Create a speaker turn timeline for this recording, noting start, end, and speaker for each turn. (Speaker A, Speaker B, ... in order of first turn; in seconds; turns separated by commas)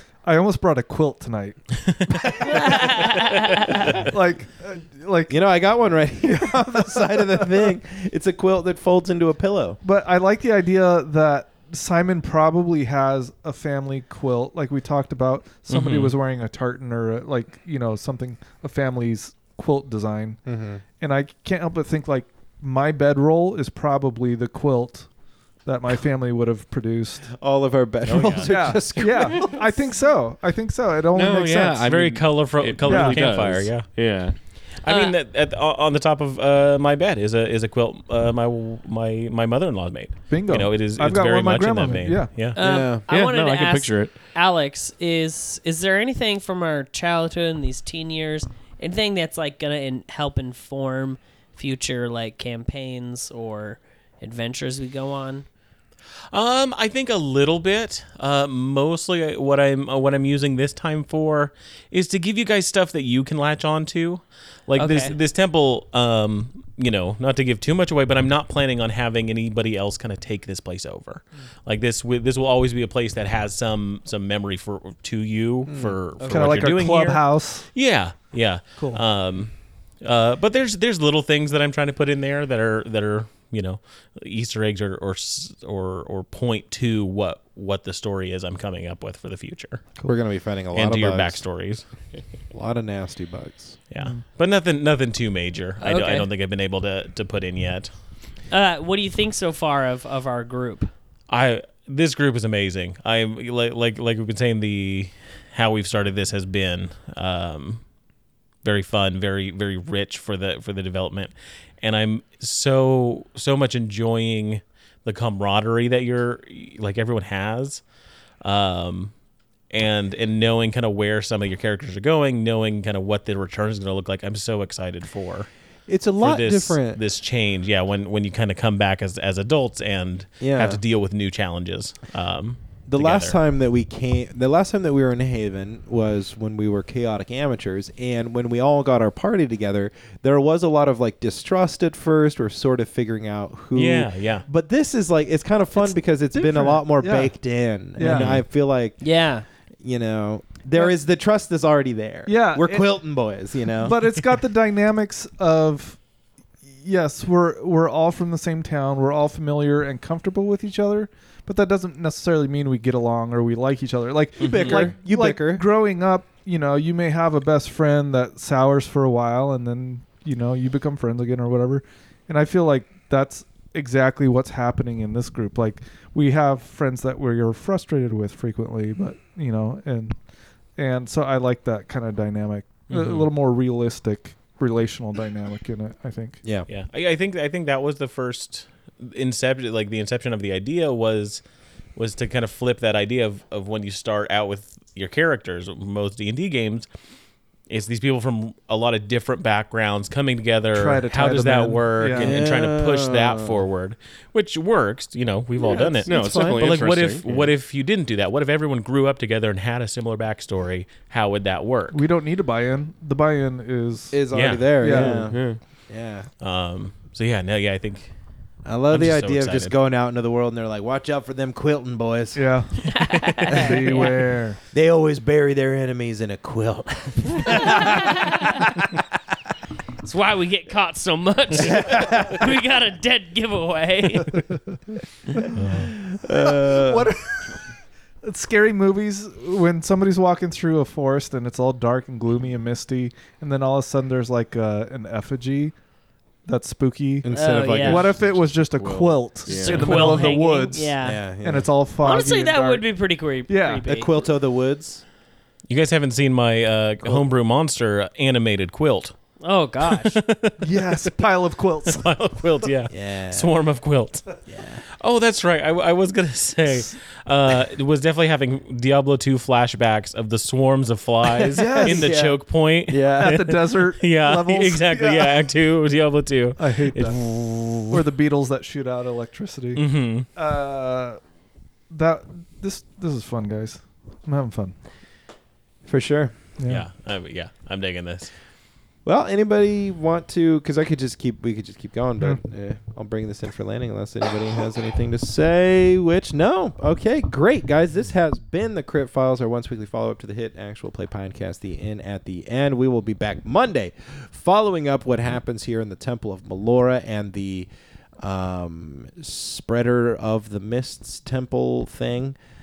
Speaker A: 0.2-2.9, Speaker B: 2.5-3.6, Speaker A: 3.9-5.4, Speaker C: 5.3-9.8, Speaker A: 6.2-7.7, Speaker A: 9.8-20.4, Speaker D: 15.7-16.2, Speaker C: 20.4-20.8, Speaker A: 21.0-25.1, Speaker A: 25.6-27.3, Speaker C: 27.3-29.8, Speaker D: 28.1-29.2, Speaker A: 28.4-31.8, Speaker E: 31.1-34.4, Speaker D: 31.7-34.0, Speaker A: 32.9-33.2, Speaker D: 34.8-42.6, Speaker B: 34.9-35.2, Speaker A: 40.3-42.3, Speaker B: 42.5-55.5, Speaker C: 42.6-43.1, Speaker E: 43.1-44.1, Speaker D: 56.3-89.9, Speaker B: 64.8-65.2, Speaker C: 75.7-76.5, Speaker A: 76.2-77.7, Speaker A: 78.8-79.0, Speaker C: 90.0-91.4, Speaker D: 90.7-91.8, Speaker C: 92.5-93.8, Speaker D: 93.9-97.9, Speaker B: 95.8-96.3, Speaker B: 98.5-100.9, Speaker D: 101.3-107.8, Speaker D: 108.6-117.8, Speaker D: 118.4-119.1, Speaker D: 119.7-125.5, Speaker C: 125.9-127.0, Speaker D: 126.2-133.4, Speaker C: 130.4-130.8, Speaker C: 132.9-149.0, Speaker D: 143.8-144.4, Speaker A: 146.3-148.4, Speaker B: 149.0-149.4, Speaker C: 149.8-154.0, Speaker A: 152.3-153.1, Speaker A: 153.8-156.0, Speaker A: 156.7-180.2, Speaker C: 164.4-165.7, Speaker D: 164.4-164.9, Speaker A: 180.8-186.4, Speaker D: 182.9-183.3, Speaker C: 186.4-186.7, Speaker D: 186.7-191.4, Speaker D: 192.0-196.9, Speaker D: 197.7-212.0, Speaker A: 200.7-202.3, Speaker C: 202.2-203.6, Speaker C: 205.6-206.6, Speaker E: 206.1-207.5, Speaker A: 211.9-214.2, Speaker C: 214.1-216.3, Speaker D: 214.3-215.1, Speaker A: 214.8-215.3, Speaker E: 215.3-215.6, Speaker D: 216.4-218.1, Speaker C: 218.7-222.4, Speaker D: 218.9-219.7, Speaker A: 222.3-222.7, Speaker B: 222.8-224.2, Speaker A: 223.5-224.6, Speaker C: 224.7-228.9, Speaker B: 228.2-228.5, Speaker B: 230.0-234.5, Speaker C: 231.5-232.5, Speaker D: 235.6-235.9, Speaker C: 235.7-237.1, Speaker A: 236.5-237.4, Speaker A: 238.2-245.8, Speaker A: 246.5-252.9, Speaker C: 247.2-248.2, Speaker B: 247.3-248.1, Speaker E: 248.2-250.3, Speaker B: 249.5-251.2, Speaker C: 250.9-251.7, Speaker B: 252.0-254.2, Speaker A: 253.5-253.8, Speaker C: 253.8-255.0, Speaker D: 255.7-259.1, Speaker B: 259.4-260.2, Speaker D: 259.8-261.1, Speaker A: 260.6-262.1, Speaker D: 261.8-264.3, Speaker C: 262.9-263.5, Speaker C: 264.5-264.8, Speaker D: 265.0-278.0, Speaker A: 271.5-272.1, Speaker C: 271.8-273.3, Speaker A: 273.2-275.4, Speaker A: 276.6-277.2, Speaker A: 277.9-279.8, Speaker D: 279.8-280.3, Speaker A: 280.4-281.2, Speaker A: 281.9-284.8, Speaker C: 285.9-286.3, Speaker A: 286.6-286.9, Speaker D: 286.7-288.3, Speaker C: 289.1-307.7, Speaker C: 308.2-312.4